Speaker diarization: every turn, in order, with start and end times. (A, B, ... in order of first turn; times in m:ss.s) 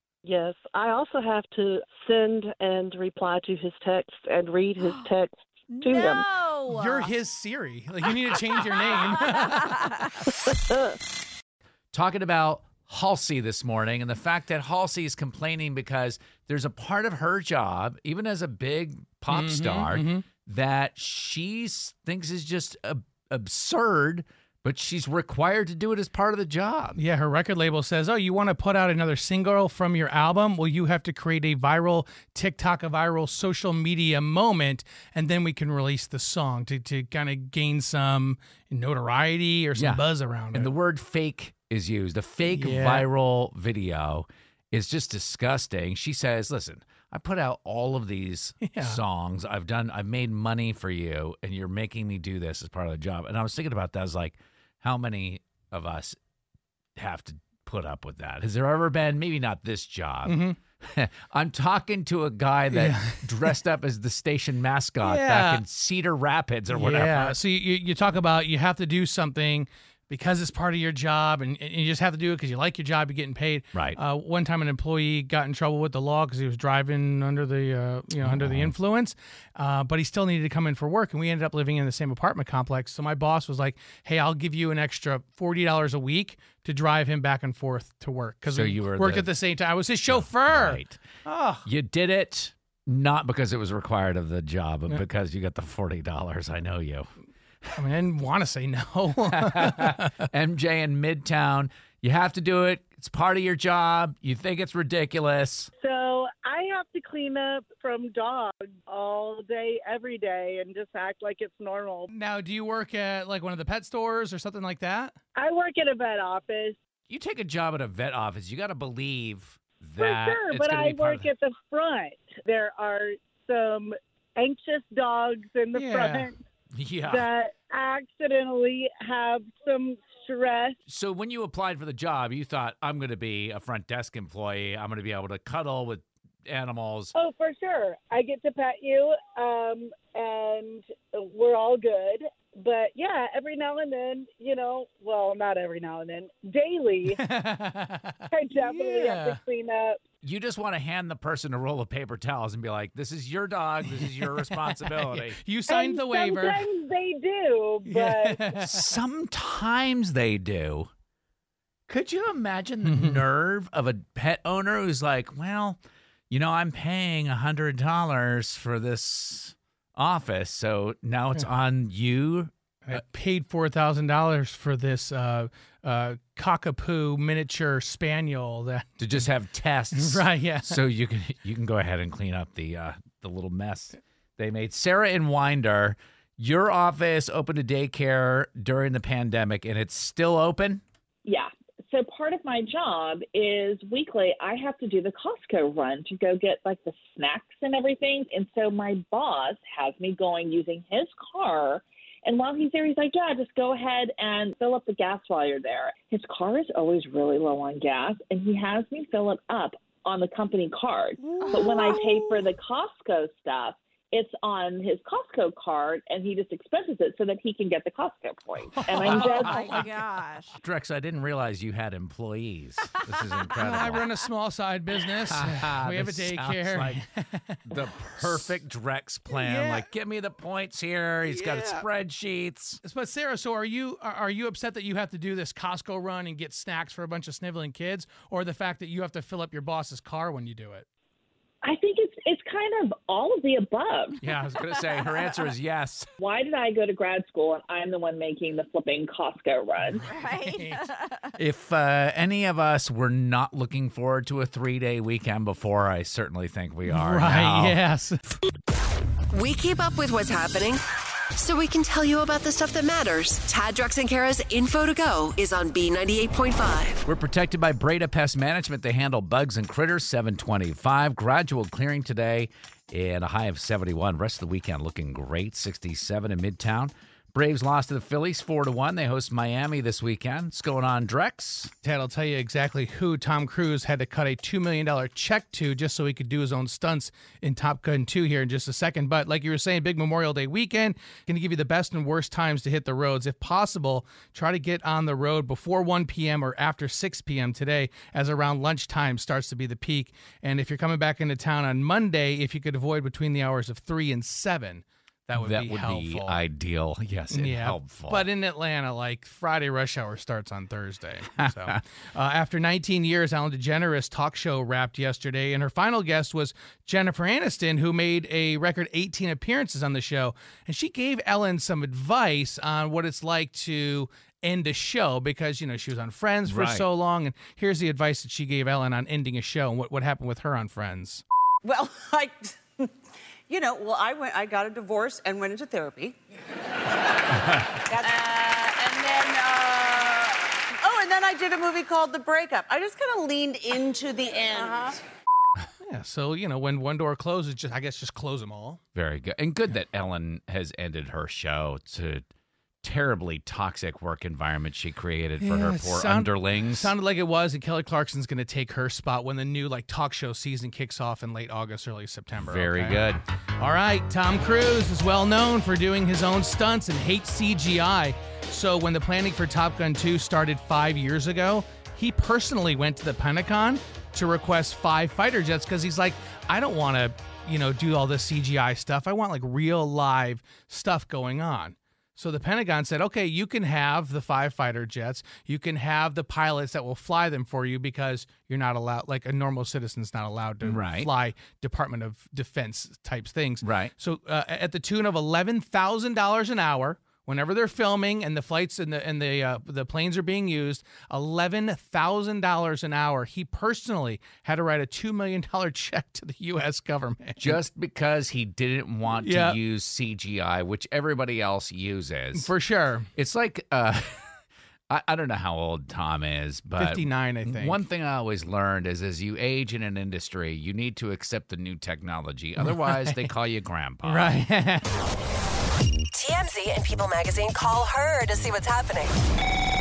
0:00.2-0:06.3 A
0:05.7-0:07.1 B
0:06.7-0:10.1 C
0:09.3-0:10.0 B
0:11.9-0:27.0 D
0:19.3-0:20.2 C
0:27.0-0:40.7 C
0:39.7-0:56.2 D
0:42.5-0:43.1 C
0:48.6-0:49.0 C
0:57.0-1:07.4 D
1:00.2-1:00.6 C
1:02.7-1:03.3 C
1:05.0-1:05.6 C
1:06.7-1:31.6 C
1:18.2-1:18.7 D
1:28.5-1:29.3 D
1:30.1-1:31.0 D
1:31.6-1:37.1 D
1:37.7-1:40.1 C
1:39.3-1:45.7 D
1:45.8-1:52.1 E
1:52.1-1:55.2 C
1:55.4-1:56.8 E
1:57.1-2:01.3 D
2:00.0-2:06.3 E
2:05.7-2:06.3 C
2:06.7-2:07.3 D
2:07.0-2:10.8 E
2:10.9-2:17.1 D
2:17.1-2:27.2 E
2:27.1-2:29.4 C
2:28.3-2:30.0 E
2:30.2-2:35.4 D
2:33.9-2:36.7 C
2:35.7-2:38.5 E
2:37.8-2:38.9 C
2:38.6-2:40.9 D
2:41.9-2:45.8 D
2:42.8-2:43.2 C
2:46.3-2:53.0 D
2:52.8-2:58.9 C
2:59.0-3:10.8 D
2:59.9-3:00.8 C
3:11.2-3:39.8 F
3:31.4-3:32.1 B
3:31.5-3:32.0 C
3:38.7-3:39.8 C
3:39.0-3:40.6 B
3:40.6-3:44.1 D
3:43.5-3:47.6 C
3:45.2-3:47.0 D
3:47.7-3:52.8 D
3:49.3-3:49.9 C
3:51.2-3:51.8 C
3:52.8-4:00.8 C
4:01.6-4:04.2 F
4:04.2-4:04.6 C
4:04.5-4:06.1 D
4:06.2-4:10.0 F
4:09.8-4:10.9 C
4:10.1-4:11.3 B
4:11.4-4:17.8 D
4:16.9-4:18.3 C
4:19.3-4:20.8 G
4:21.4-4:27.0 G
4:27.0-4:41.7 D
4:41.8-5:06.4 C
5:05.4-5:08.2 D
5:07.3-5:31.2 C
5:11.4-5:11.8 D
5:26.4-5:26.8 D
5:31.6-5:32.9 H
5:33.5-5:36.2 H
5:37.9-5:45.0 H
5:45.8-5:48.8 C
5:48.9-5:52.2 D
5:52.8-5:56.9 D
5:55.4-6:03.1 C
6:02.4-6:03.2 D
6:03.6-6:47.6 C
6:30.6-6:31.1 D
6:33.6-6:33.9 D
6:47.4-6:52.5 D
6:49.2-6:49.6 C
6:52.3-6:53.1 C
6:53.2-6:54.2 D
6:54.9-7:04.3 D
6:56.8-6:57.8 C
7:02.6-7:03.2 C
7:04.0-7:04.9 C
7:06.1-7:09.2 G